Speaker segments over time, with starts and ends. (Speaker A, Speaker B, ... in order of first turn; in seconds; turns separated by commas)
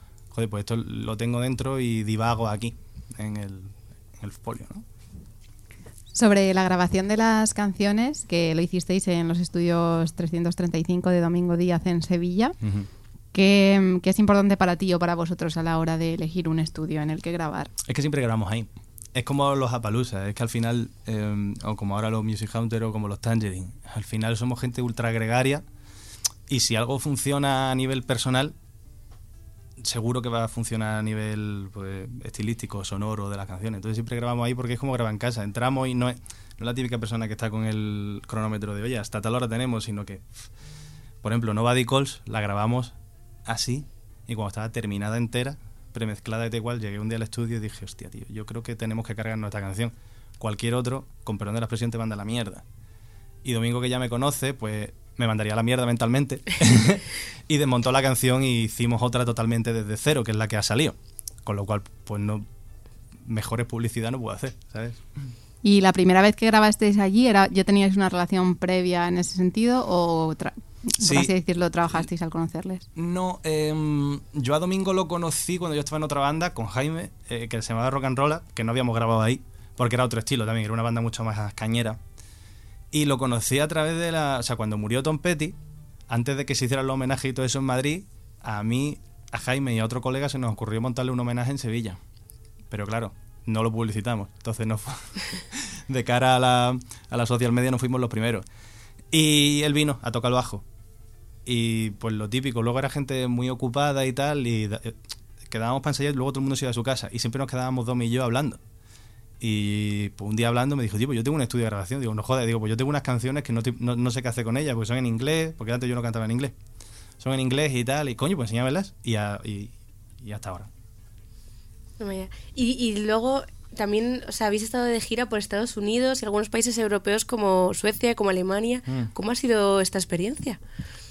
Speaker A: 0.3-4.8, Speaker B: 6.1-12.6, Speaker A: 12.6-12.9, Speaker B: 13.3-17.7, Speaker A: 17.9-25.6, Speaker A: 26.5-28.5, Speaker A: 29.8-40.5, Speaker A: 41.2-52.6, Speaker A: 53.4-62.5, Speaker A: 63.2-65.0, Speaker B: 65.6-72.8, Speaker A: 71.0-71.3, Speaker A: 72.9-82.0, Speaker A: 82.9-85.6, Speaker A: 86.1-92.0, Speaker A: 92.7-98.5, Speaker A: 99.1-100.6, Speaker A: 101.4-108.6, Speaker A: 109.4-116.5, Speaker A: 117.2-120.7, Speaker C: 122.0-130.6